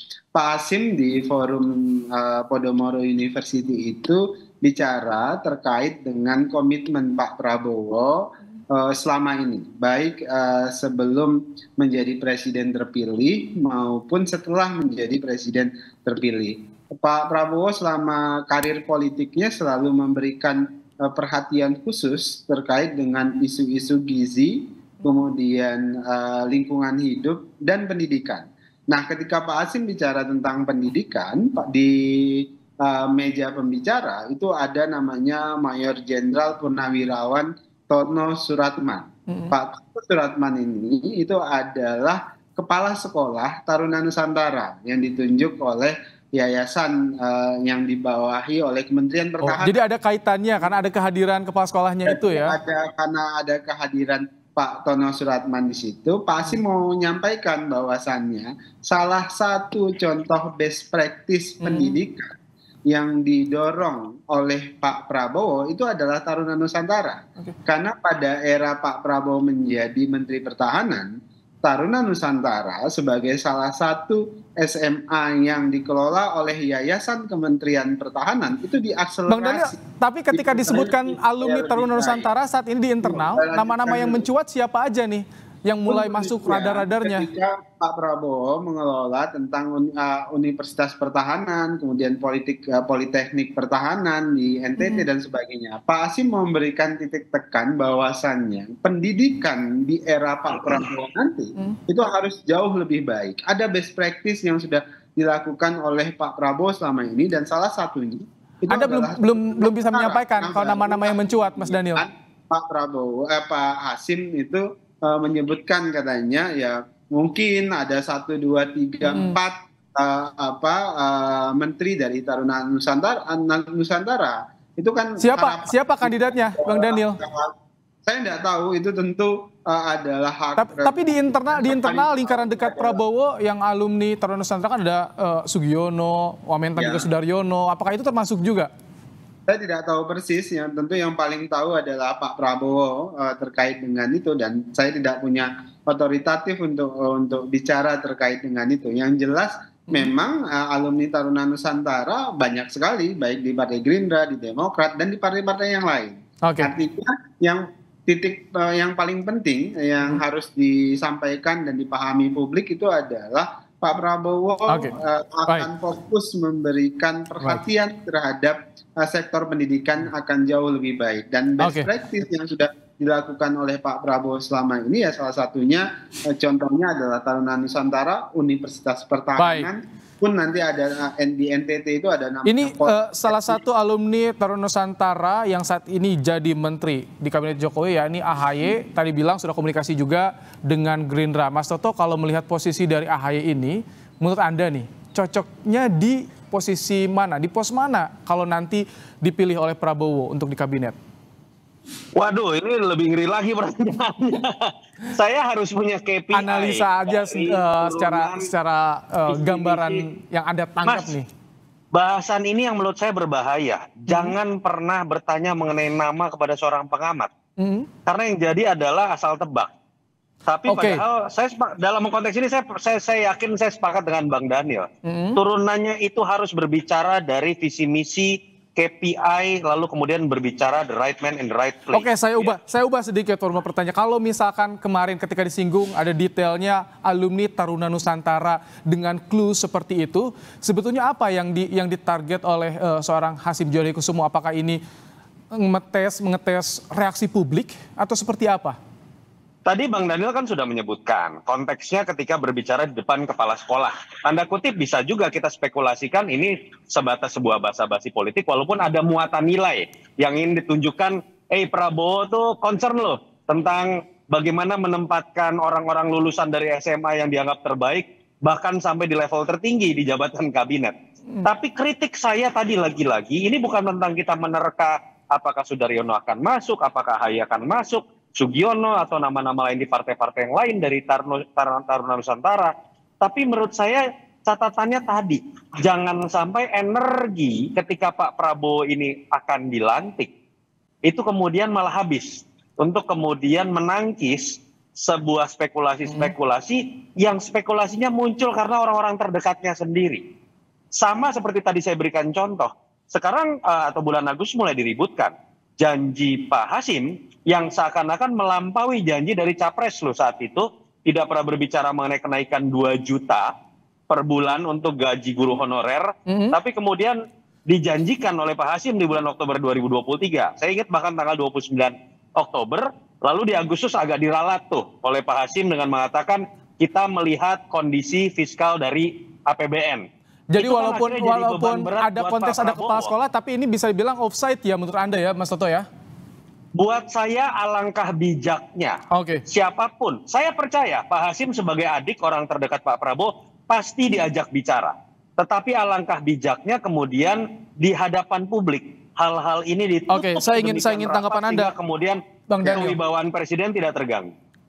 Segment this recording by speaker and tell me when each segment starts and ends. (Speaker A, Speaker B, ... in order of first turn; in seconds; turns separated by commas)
Speaker A: 0.3-49.8, Speaker B: 49.4-52.6, Speaker A: 52.0-62.3, Speaker B: 61.6-62.0, Speaker A: 62.9-79.8, Speaker B: 79.3-87.3, Speaker A: 80.3-82.3, Speaker A: 83.0-84.3, Speaker A: 85.9-127.5, Speaker B: 94.8-95.0, Speaker B: 108.7-112.0, Speaker B: 119.0-119.4, Speaker B: 125.2-127.2, Speaker A: 128.0-133.0, Speaker B: 130.6-138.7, Speaker A: 136.8-137.1, Speaker A: 139.5-183.6, Speaker B: 156.4-156.7, Speaker B: 164.7-164.9, Speaker B: 171.6-171.9, Speaker B: 179.4-179.7, Speaker B: 182.5-201.0, Speaker C: 202.2-208.5, Speaker B: 206.3-211.3, Speaker C: 209.3-210.1, Speaker C: 210.9-211.2, Speaker C: 211.9-217.3, Speaker B: 214.1-214.3, Speaker B: 217.6-217.9, Speaker C: 218.1-219.7, Speaker C: 220.5-232.6, Speaker B: 220.7-221.0, Speaker B: 225.1-225.4, Speaker B: 231.9-244.8, Speaker B: 245.6-248.8, Speaker C: 249.7-282.7, Speaker C: 283.2-290.3, Speaker C: 291.1-300.2, Speaker C: 301.0-313.5, Speaker C: 314.1-317.1, Speaker B: 316.3-316.6, Speaker C: 317.7-330.1, Speaker B: 330.5-335.9, Speaker C: 330.6-333.1, Speaker C: 336.8-339.0, Speaker B: 339.1-339.4, Speaker C: 339.5-354.3, Speaker B: 350.1-351.7, Speaker B: 352.5-353.0